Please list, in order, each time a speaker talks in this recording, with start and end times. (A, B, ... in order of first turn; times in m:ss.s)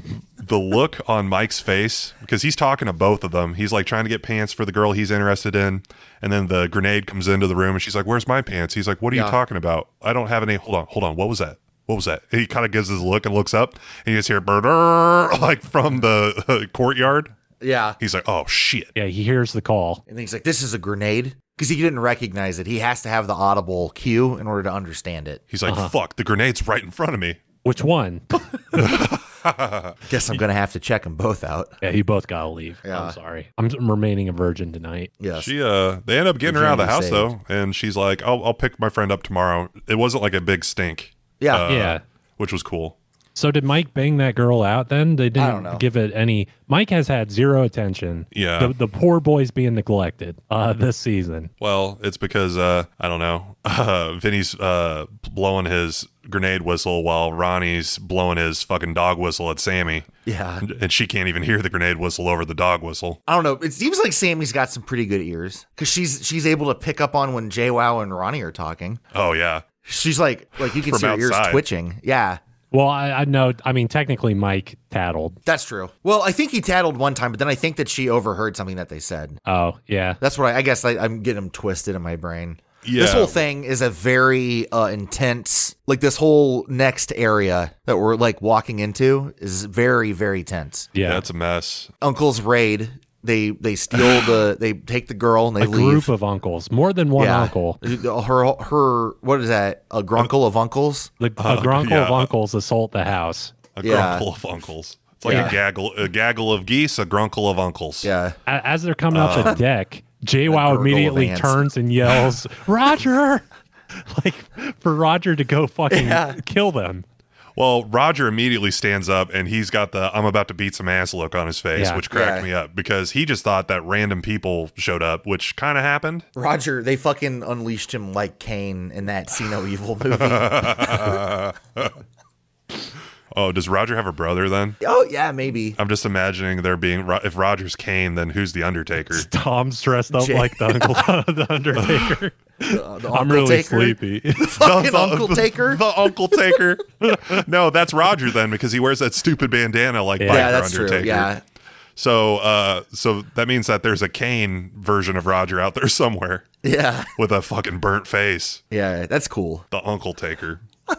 0:00.4-0:17.3 A
0:09.1-0:09.4 B
0:17.6-0:18.0 B
0:18.0-0:18.9 A
0:18.9-0:20.0 C
0:20.1-0:25.4 B
0:25.5-0:27.4 A
0:25.6-0:25.9 C
0:27.6-0:28.8 C
0:28.7-0:29.9 A
0:30.0-0:31.7 B
0:31.8-0:35.1 C
0:32.8-0:33.2 B
0:35.2-0:35.5 B
0:35.3-0:43.0 A
0:36.4-0:37.3 B
0:41.4-0:41.7 B
0:41.7-0:42.0 C
0:43.3-0:51.5 C
0:45.4-0:45.8 B
0:48.3-0:48.7 A
0:51.6-1:00.1 A
1:00.2-1:00.7 B
1:00.6-1:03.2 A
1:03.3-1:09.0 B
1:09.1-1:09.6 A
1:09.8-1:12.4 B
1:10.6-1:11.6 A
1:12.7-1:15.4 C
1:15.4-1:19.4 B
1:19.5-1:20.2 C
1:20.2-1:30.9 B
1:22.8-1:23.4 A
1:30.9-1:31.2 C
1:31.0-1:31.9 A
1:32.0-1:36.1 B
1:35.6-1:37.8 C
1:37.2-1:41.1 B
1:41.2-1:43.5 C
1:41.4-1:42.3 A
1:43.8-1:48.1 A
1:43.8-1:44.2 B
1:45.2-1:45.6 B
1:45.2-1:45.5 C
1:48.0-1:48.4 B
1:48.5-1:57.0 C
1:49.1-1:49.6 A
1:49.3-1:49.6 B
1:50.5-1:51.6 B
1:55.9-1:56.4 B
1:57.6-2:06.2 A
2:01.7-2:02.0 C
2:02.1-2:02.5 B
2:06.4-2:11.2 B
2:10.1-2:11.9 A
2:13.3-2:14.8 A
2:14.8-2:15.8 B
2:15.8-2:19.3 A
2:19.1-2:24.6 C
2:20.1-2:21.0 B
2:22.7-2:25.8 B
2:24.6-2:31.3 A
2:30.2-2:30.5 C
2:30.3-2:31.4 B
2:32.0-2:36.4 A
2:36.6-2:37.1 B
2:37.2-2:38.6 A
2:38.7-2:39.6 B
2:39.7-2:40.6 A